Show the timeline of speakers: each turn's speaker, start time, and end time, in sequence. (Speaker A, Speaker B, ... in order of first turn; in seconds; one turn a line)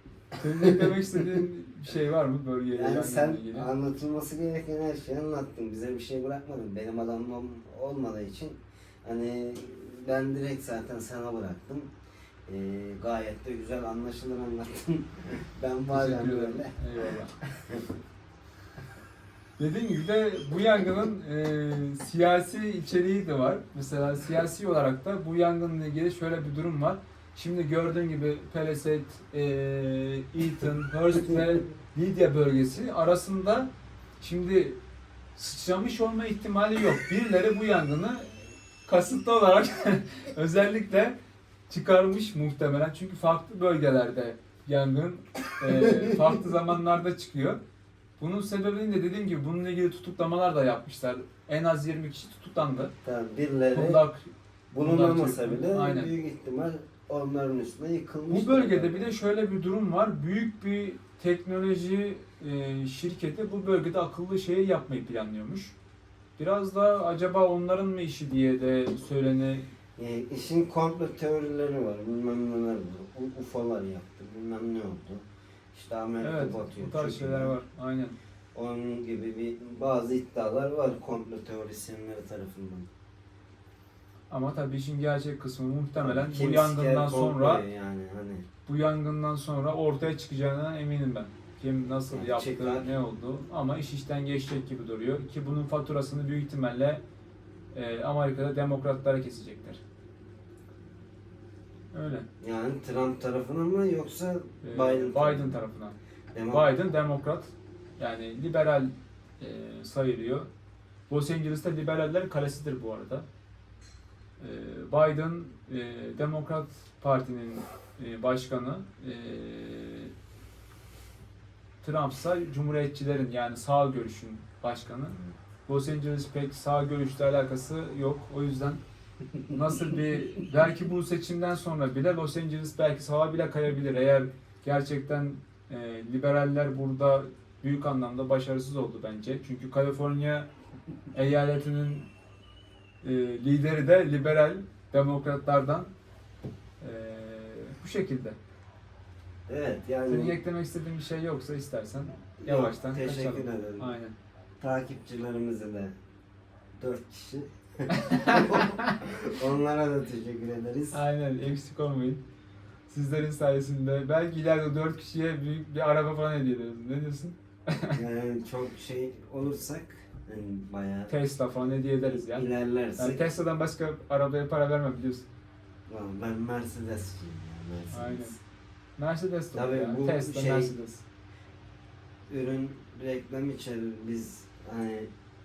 Speaker A: 0.4-3.7
Speaker B: 2.8-11.9
Speaker B: 12.5-16.7
Speaker A: 15.9-17.4
Speaker B: 17.4-17.8
Speaker A: 19.6-34.8
Speaker A: 35.4-41.1
Speaker A: 41.7-47.6
Speaker B: 45.7-46.2
Speaker A: 48.2-52.9
Speaker B: 53.0-54.0
Speaker A: 53.7-56.1
Speaker B: 54.7-59.1
Speaker A: 58.3-65.8
Speaker A: 66.4-69.7
Speaker B: 70.0-77.5
Speaker A: 76.2-78.1
Speaker B: 78.5-82.9
Speaker A: 84.3-87.6
Speaker B: 86.0-88.5
Speaker A: 88.7-97.0
Speaker B: 92.1-92.9
Speaker A: 97.7-99.8
Speaker A: 101.9-102.2
Speaker B: 102.4-105.6
Speaker A: 104.6-105.9
Speaker B: 106.3-106.8
Speaker A: 106.5-110.5
Speaker A: 111.1-113.2
Speaker A: 114.4-120.1
Speaker A: 121.8-128.8
Speaker A: 129.5-140.5
Speaker A: 141.1-142.1
Speaker A: 143.0-145.9
Speaker A: 146.8-148.4
Speaker B: 149.5-150.4
Speaker A: 150.1-154.1
Speaker B: 152.4-153.9
Speaker B: 154.6-155.9
Speaker B: 156.8-161.0
Speaker A: 158.0-158.9
Speaker A: 160.9-162.2
Speaker A: 162.9-168.0
Speaker B: 167.9-171.1
Speaker A: 171.1-175.2
Speaker B: 172.1-173.2
Speaker B: 175.9-178.4
Speaker A: 177.9-178.3
Speaker A: 179.0-181.0
Speaker B: 179.5-180.7
Speaker B: 182.3-185.1